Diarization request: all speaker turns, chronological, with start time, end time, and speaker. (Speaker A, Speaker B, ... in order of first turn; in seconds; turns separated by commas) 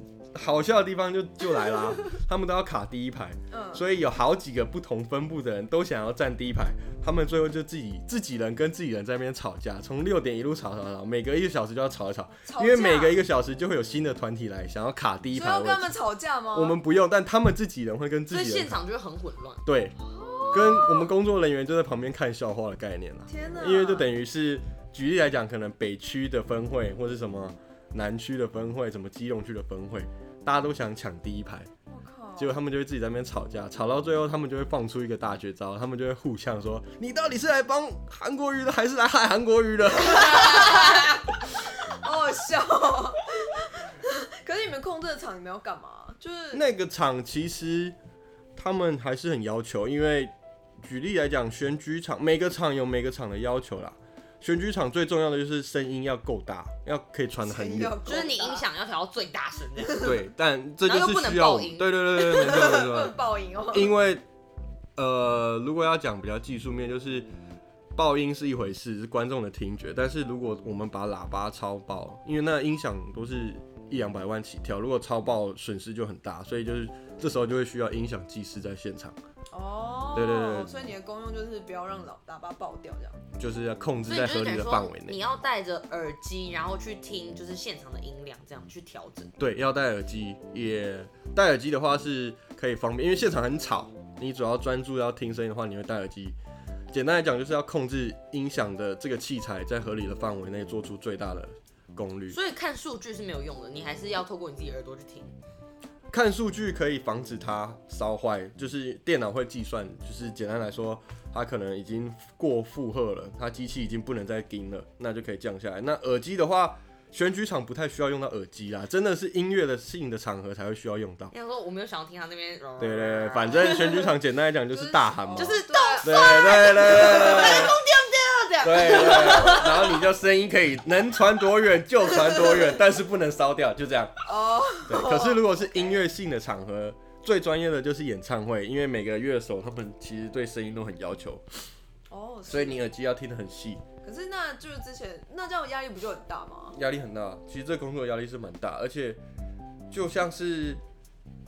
Speaker A: 0.3-15.9, Speaker B: 3.5-3.8, Speaker B: 12.4-13.2, Speaker B: 15.3-16.8, Speaker A: 16.5-18.8, Speaker C: 18.3-19.6, Speaker A: 19.6-19.9, Speaker B: 20.0-21.1, Speaker A: 20.5-31.7, Speaker B: 23.3-24.1, Speaker B: 31.9-32.6, Speaker A: 32.4-41.0, Speaker B: 40.0-41.2, Speaker B: 41.8-46.6, Speaker A: 46.5-48.0, Speaker A: 48.5-58.0, Speaker B: 57.4-58.6, Speaker C: 58.0-60.2, Speaker A: 60.0-63.2, Speaker C: 60.8-62.6, Speaker B: 62.2-63.9, Speaker A: 63.7-64.2, Speaker A: 65.0-67.3, Speaker A: 67.9-79.2, Speaker B: 79.5-83.3, Speaker A: 80.1-80.7, Speaker A: 83.4-85.2, Speaker C: 84.0-89.3, Speaker A: 89.4-96.4, Speaker A: 96.9-102.4, Speaker C: 102.3-105.3, Speaker A: 106.1-121.3, Speaker C: 121.3-124.1, Speaker A: 122.8-127.8, Speaker B: 124.7-127.6, Speaker C: 125.3-129.8, Speaker A: 128.6-134.1, Speaker B: 134.2-135.9, Speaker A: 134.8-141.4, Speaker B: 142.1-142.8, Speaker A: 142.5-143.8, Speaker B: 144.0-146.8, Speaker A: 146.7-149.2, Speaker A: 149.9-150.8